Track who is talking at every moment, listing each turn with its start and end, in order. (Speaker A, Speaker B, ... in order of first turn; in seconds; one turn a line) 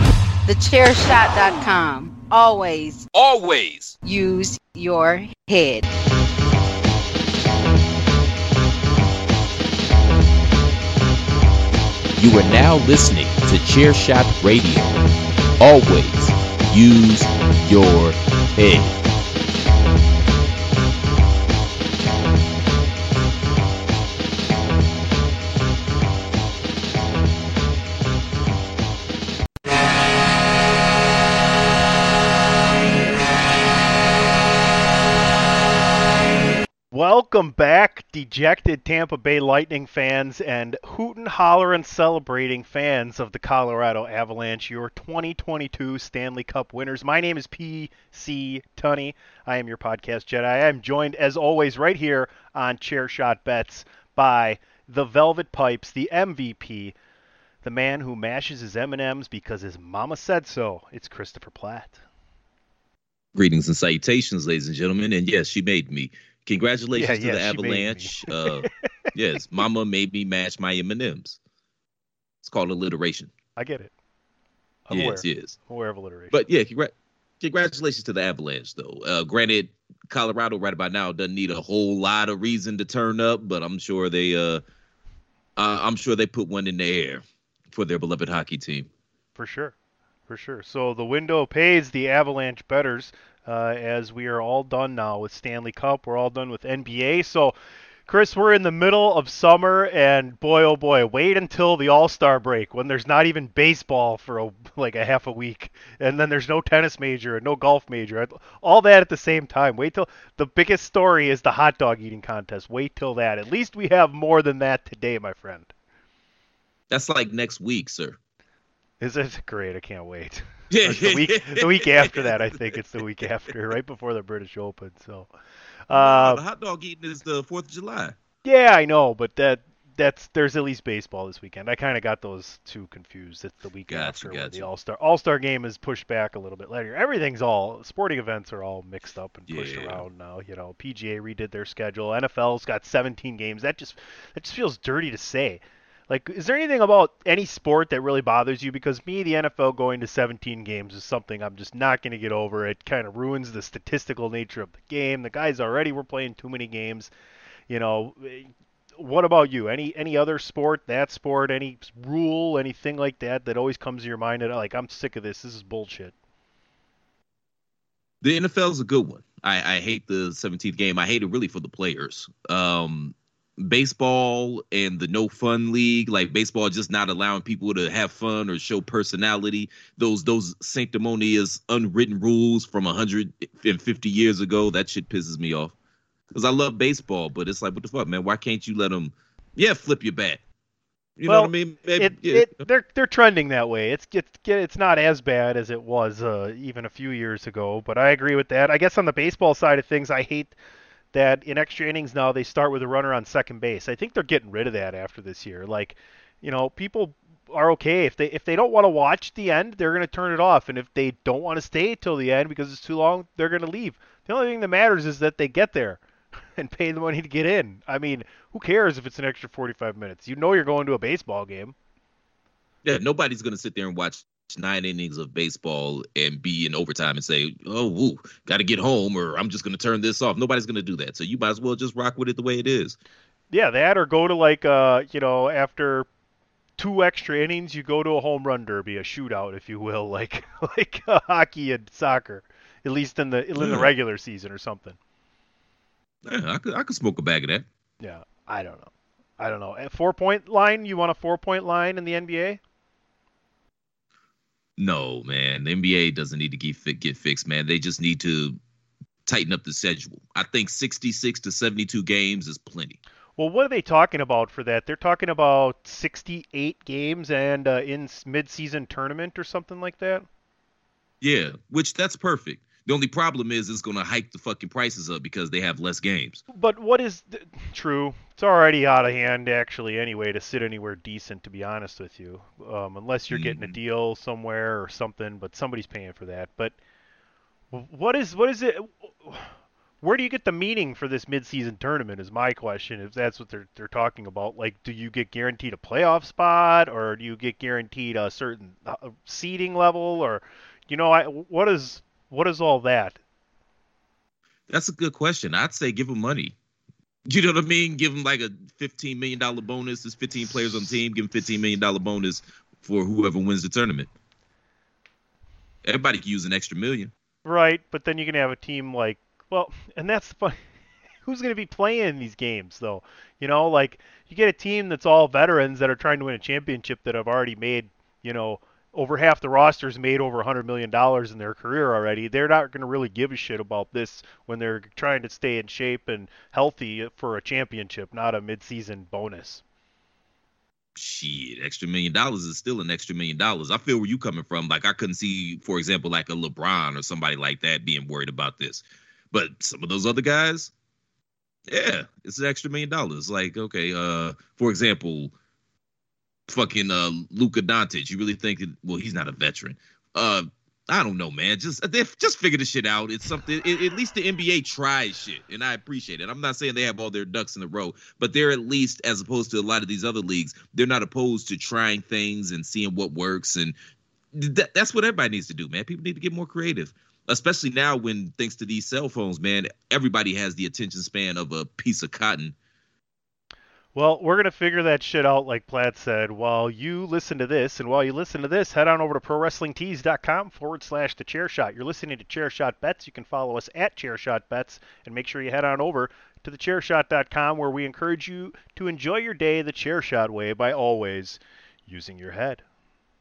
Speaker A: 0.5-3.0
Speaker B: 3.1-4.0
Speaker A: 4.0-5.9
Speaker B: 12.2-15.0
Speaker B: 15.6-19.0
Speaker C: 36.9-56.9
Speaker C: 57.6-62.0
Speaker B: 63.3-71.4
Speaker C: 66.9-68.7
Speaker B: 72.4-73.3
Speaker C: 73.5-73.9
Speaker C: 74.9-76.3
Speaker B: 74.9-75.5
Speaker B: 76.3-84.6
Speaker B: 85.5-88.9
Speaker C: 89.3-89.7
Speaker C: 90.3-97.5
Speaker C: 98.1-115.7
Speaker B: 116.9-118.2
Speaker C: 119.0-125.3
Speaker B: 120.7-122.5
Speaker C: 125.9-126.4
Speaker B: 125.9-128.2
Speaker C: 128.4-157.1
Speaker B: 133.9-134.7
Speaker B: 139.5-140.1
Speaker C: 157.7-166.1
Speaker B: 168.2-185.7
Speaker B: 186.3-190.4
Speaker B: 191.2-192.6
Speaker C: 191.3-200.5
Speaker C: 201.1-216.0
Speaker C: 216.6-221.7
Speaker B: 222.8-233.0
Speaker C: 233.5-236.1
Speaker C: 236.8-245.0
Speaker B: 243.6-243.9
Speaker B: 246.2-247.7
Speaker C: 248.0-252.6
Speaker B: 254.8-258.6
Speaker B: 259.2-263.0
Speaker C: 263.4-270.2
Speaker B: 271.2-276.4
Speaker C: 276.5-286.8
Speaker B: 283.3-283.7
Speaker C: 287.7-303.2
Speaker B: 304.7-306.5
Speaker B: 307.2-314.1
Speaker B: 315.8-317.1
Speaker C: 317.4-320.6
Speaker C: 321.2-339.6
Speaker B: 340.9-350.7
Speaker B: 351.7-355.3
Speaker B: 356.5-373.7
Speaker B: 374.3-382.6
Speaker C: 383.9-402.6